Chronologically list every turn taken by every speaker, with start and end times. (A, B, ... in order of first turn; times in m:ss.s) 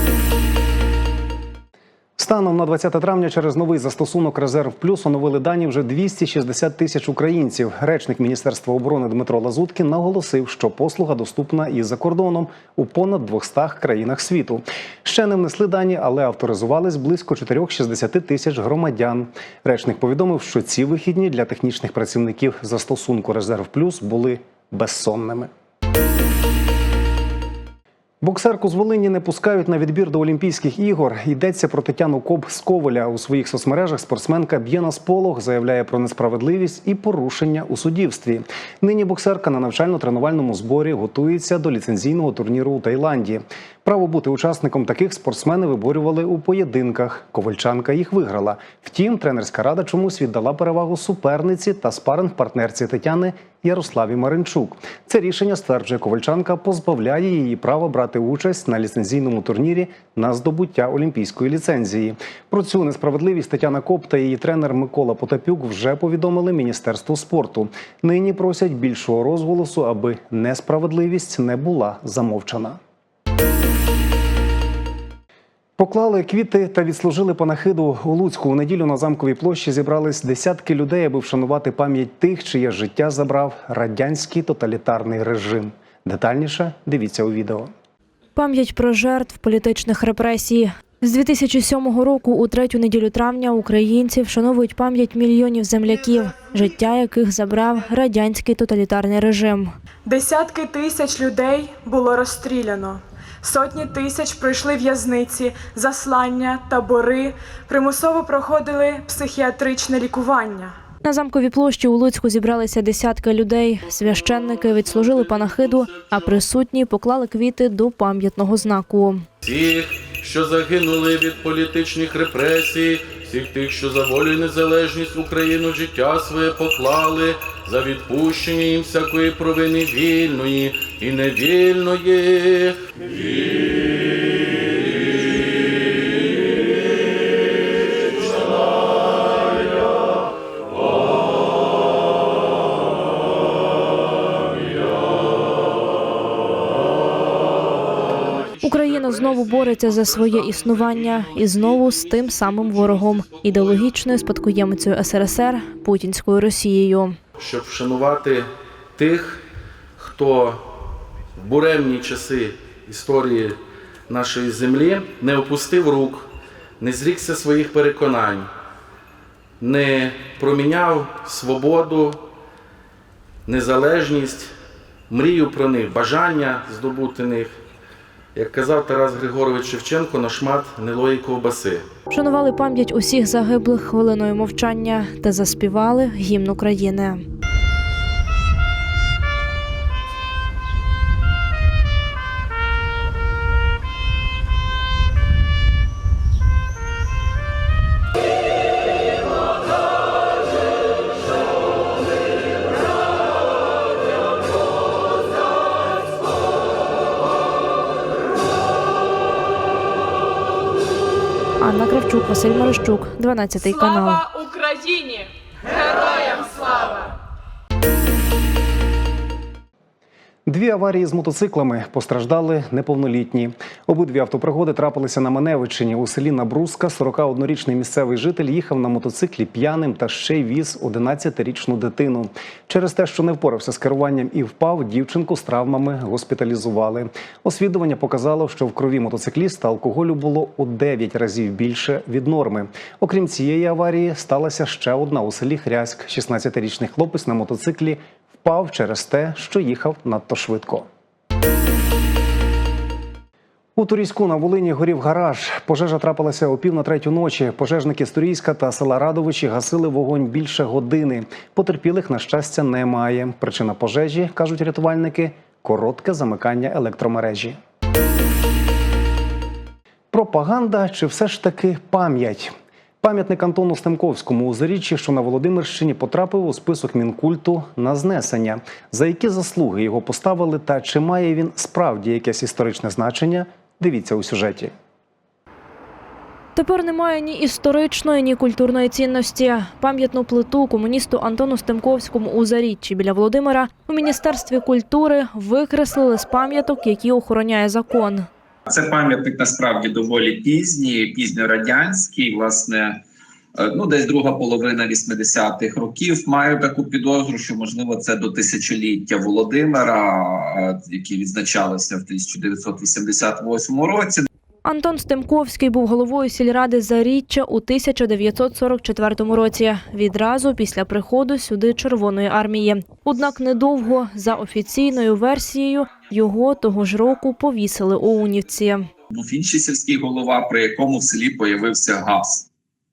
0:02.2-0:25.5 A
0:28.2-1:12.8 A
1:15.8-1:27.7 A
1:28.4-1:39.7 B
1:40.1-1:50.8 C
1:51.0-1:59.2 B
1:59.4-2:13.6 D
2:28.6-2:37.2 B
2:37.4-2:39.4 D
2:40.0-2:40.7 D
2:41.4-2:46.3 D
2:46.8-2:48.5 D
2:49.6-2:52.2 D
2:53.5-2:54.5 D
2:55.1-2:57.6 D
2:58.4-3:01.9 D
3:02.1-3:07.2 B
3:31.6-3:34.4 B
3:40.5-4:10.9 A
4:13.8-4:27.6 A
4:30.1-4:44.7 A
4:46.6-4:58.3 B
4:58.7-5:03.0 E
5:03.6-5:14.3 E
5:14.6-5:28.9 B
5:29.1-5:32.5 E